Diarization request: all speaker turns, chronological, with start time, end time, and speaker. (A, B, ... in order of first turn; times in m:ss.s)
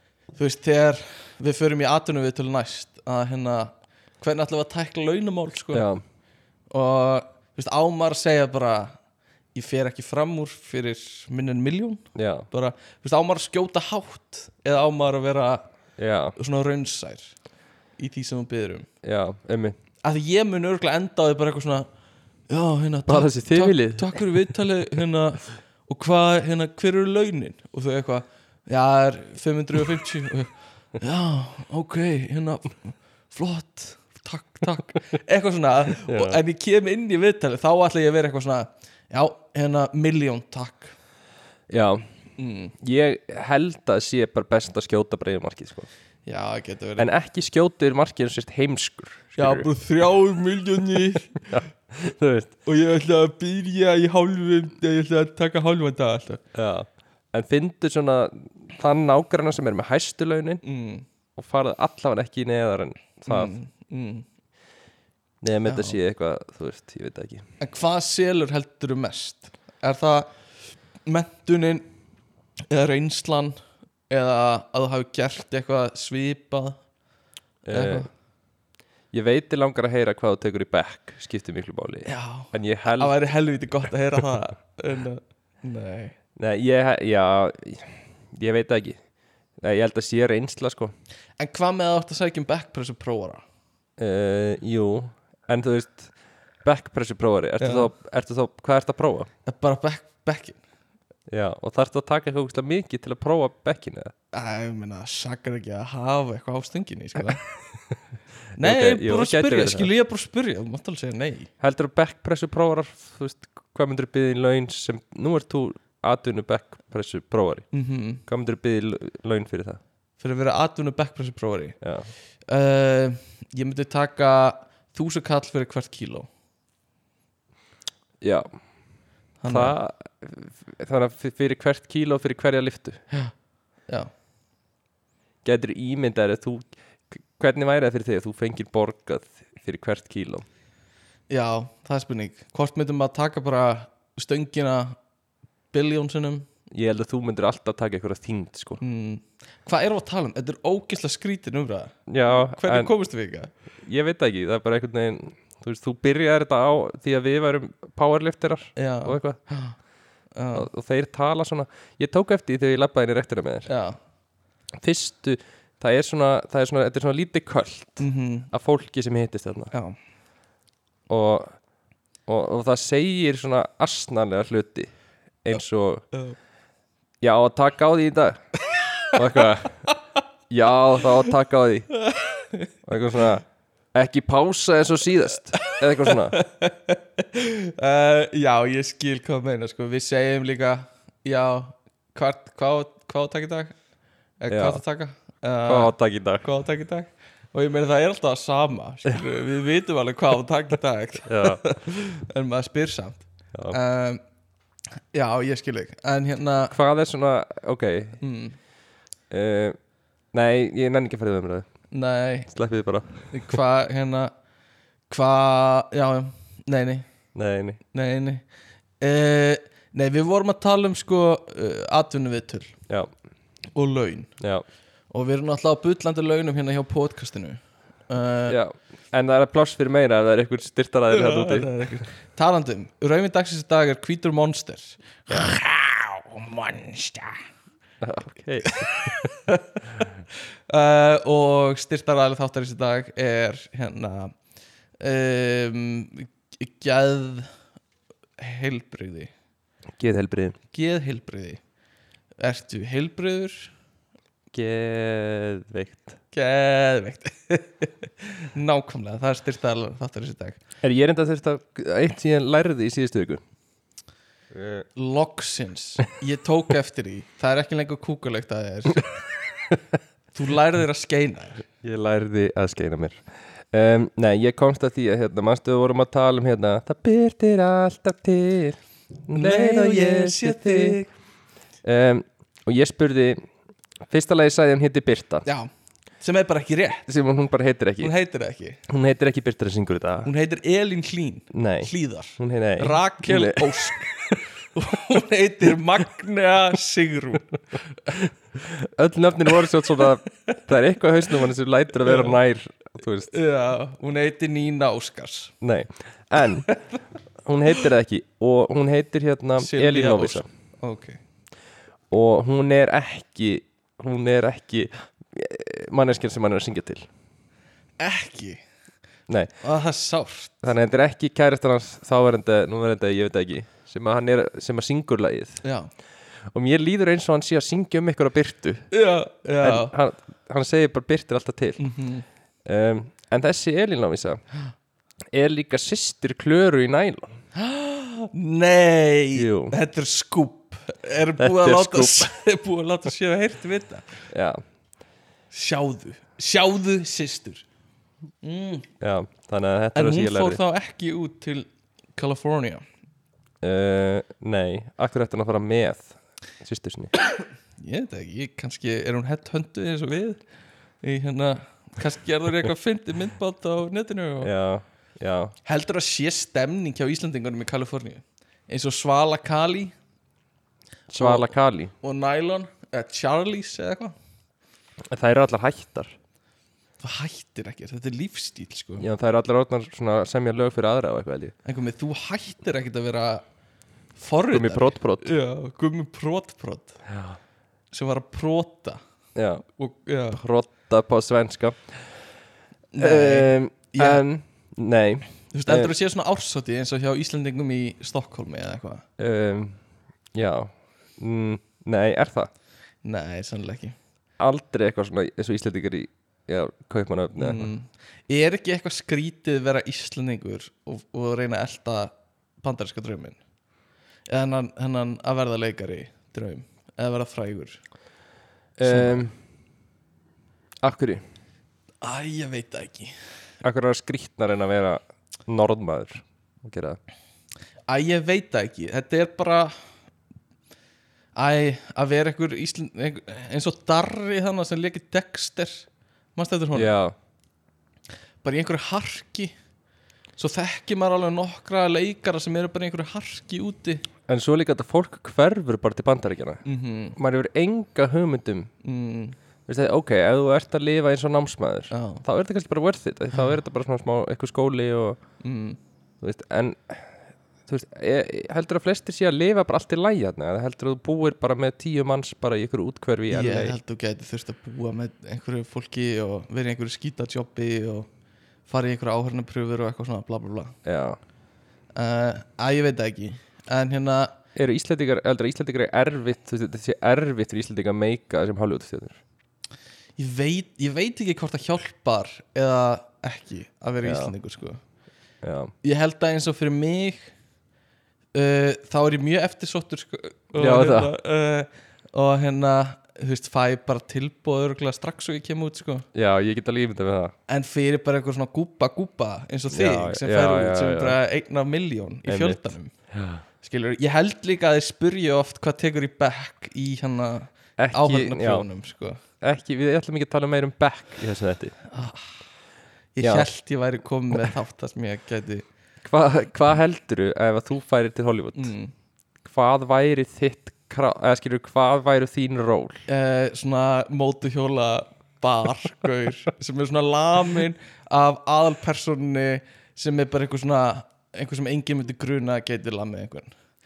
0:00.3-0:05.9 A
0:05.7-0:06.0 B
0:06.7-0:09.0 A
0:09.5-0:15.7 A
0:12.1-0:12.5 B
0:16.0-0:16.4 B
0:16.4-0:17.3 A
0:18.0-0:18.9 A
0:19.0-0:19.8 B
0:20.0-0:21.9 A
0:22.5-0:40.9 A
0:23.1-0:24.5 B
0:36.0-0:36.4 B
0:41.7-0:42.0 B
0:42.4-0:42.7 A
0:42.8-0:45.9 B
0:46.2-0:47.1 A
0:47.0-0:49.7 B
0:49.4-0:51.4 A
0:51.4-0:52.5 B
0:52.6-0:56.4 A
0:56.5-1:00.6 B
1:00.6-1:01.0 A
1:01.4-1:03.5 B
1:03.3-1:04.2 A
1:05.4-1:07.4 B
1:05.7-1:06.0 A
1:07.6-1:10.4 A
1:11.0-1:11.9 A
1:12.7-1:13.6 A
1:14.1-1:16.8 A
1:17.6-1:18.1 B
1:17.7-1:18.1 A
1:19.1-1:23.2 B
1:22.0-1:26.2 A
1:26.4-1:29.0 B
1:29.6-1:30.9 B
1:31.4-1:33.4 A
1:34.0-1:36.1 B
1:36.6-1:39.3 B
1:37.6-1:37.9 A
1:39.4-1:40.6 A
1:41.3-1:44.1 B
1:44.3-1:47.4 A
1:48.6-1:51.5 A
1:48.6-1:49.9 B
1:51.6-1:57.7 B
1:57.7-1:58.2 A
1:58.2-1:59.8 B
2:00.2-2:01.8 A
2:01.8-2:02.1 B
2:02.5-2:06.3 A
2:08.2-2:08.6 B
2:09.4-2:09.8 A
2:09.5-2:13.0 B
2:15.4-2:20.4 B
2:21.3-2:25.0 A
2:25.7-2:26.5 A
2:26.7-2:28.8 B
2:28.8-2:33.5 A
2:32.1-2:32.9 B
2:33.8-2:39.4 B
2:38.8-2:39.8 A
2:40.3-2:40.7 A
2:40.5-2:43.7 B
2:43.7-2:44.0 A
2:44.8-2:49.7 B
2:48.0-2:48.5 A
2:49.7-2:50.0 A
2:51.1-2:51.6 B
2:52.3-2:54.9 B
2:55.4-2:56.0 B
2:57.2-2:58.4 B
2:59.1-2:59.9 B
3:00.5-3:01.9 B
3:02.1-3:02.6 A
3:02.8-3:06.4 B
3:06.0-3:13.8 A
3:14.4-3:24.2 A
3:14.5-3:14.8 B
3:15.6-3:16.5 B
3:21.2-3:21.6 B
3:25.1-3:26.8 A
3:26.7-3:28.2 B
3:28.2-3:28.6 A
3:29.3-3:29.8 B
3:30.3-3:31.7 B
3:31.9-3:32.5 A
3:32.5-3:33.5 B
3:33.3-3:34.3 A
3:35.1-3:37.0 A
3:37.3-3:37.8 B
3:37.9-3:38.4 A
3:39.0-3:42.8 A
3:43.8-3:44.3 A
3:45.1-3:48.6 A
3:48.5-3:51.8 B
3:51.1-3:57.4 A
3:58.0-3:59.1 B
3:58.6-3:59.8 A
4:00.7-4:04.3 A
4:05.0-4:07.5 A
4:08.4-4:09.3 A
4:10.0-4:10.6 B
4:10.7-4:11.6 A
4:12.4-4:13.7 A
4:14.5-4:16.2 B
4:16.3-4:20.6 A
4:20.8-4:23.4 B
4:24.5-4:24.9 B
4:25.0-4:29.1 A
4:30.3-4:31.6 A
4:31.8-4:41.0 B
4:39.3-4:41.1 A
4:41.8-4:43.4 B
4:44.1-4:45.4 B
4:45.4-4:47.1 A
4:47.1-4:48.1 B
4:48.0-4:48.8 A
4:48.9-4:50.3 B
4:50.2-4:58.1 A
4:51.5-4:54.0 B
4:58.6-5:03.3 B
5:02.0-5:02.4 A
5:03.3-5:05.5 A
5:05.6-5:06.7 B
5:07.4-5:10.4 B
5:09.6-5:11.2 A
5:12.1-5:17.1 B
5:18.0-5:18.6 A
5:19.6-5:20.6 A
5:20.6-5:25.6 B
5:25.6-5:25.9 A
5:26.5-5:28.9 B
5:28.9-5:29.9 A
5:29.6-5:31.9 B
5:31.8-5:32.2 A
5:32.6-5:34.4 B
5:35.3-5:37.4 B
5:37.6-5:44.1 A
5:39.4-5:39.8 B
5:41.4-5:42.3 B
5:44.3-5:44.6 B
5:45.5-5:47.6 A
5:48.4-5:48.9 A
5:49.0-5:50.6 B
5:49.9-5:52.8 A
5:53.6-5:57.1 B
5:57.8-6:00.4 A
6:01.0-6:04.5 A
6:04.4-6:05.5 B
6:05.6-6:09.9 A
6:11.1-6:11.9 B
6:11.2-6:14.1 A
6:15.1-6:16.2 B
6:17.0-6:19.1 A
6:19.0-6:21.5 B
6:21.6-6:23.4 A
6:24.2-6:27.0 A
6:24.5-6:25.3 B
6:27.1-6:27.4 B
6:27.9-6:29.0 A
6:29.4-6:29.6 B
6:29.8-6:30.4 A
6:30.3-6:31.8 B
6:32.9-6:34.2 A
6:33.0-6:35.9 B
6:35.5-6:39.0 A
6:39.2-6:39.8 B
6:40.3-6:42.5 B
6:43.0-6:44.0 A
6:44.4-6:47.7 B
6:47.4-6:53.4 A
6:54.3-6:57.8 A
6:58.8-6:59.3 B
6:58.8-6:59.2 A
7:00.8-7:01.2 B
7:02.0-7:03.1 A
7:03.6-7:07.0 B
7:07.9-7:09.7 A
7:11.4-7:15.8 A
7:16.4-7:16.9 A
7:16.7-7:17.1 B
7:18.4-7:19.5 A
7:20.4-7:24.0 A
7:24.3-7:26.6 B
7:26.6-7:27.2 A
7:27.2-7:28.7 B
7:28.8-7:29.4 A
7:29.7-7:35.2 B
7:31.9-7:32.2 A
7:35.4-7:35.8 A
7:36.2-7:37.1 B
7:37.7-7:43.8 B
7:43.3-7:48.1 A
7:48.7-7:50.7 A
7:50.8-7:51.2 B
7:51.9-7:54.3 A
7:54.5-7:59.2 B
8:00.2-8:04.8 A
8:04.0-8:04.3 B
8:05.4-8:05.7 B
8:05.8-8:07.3 A
8:08.3-8:16.1 A
8:10.6-8:11.1 B
8:16.1-8:17.3 B
8:17.5-8:22.9 A
8:19.7-8:21.2 B
8:22.2-8:23.4 B
8:23.6-8:29.2 A
8:27.8-8:28.6 B
8:29.4-8:31.8 B
8:31.9-8:32.2 A
8:33.1-8:35.6 A
8:33.2-8:33.5 B
8:36.0-8:38.7 B
8:38.6-8:38.9 A
8:39.4-8:43.0 B
8:43.1-8:53.5 A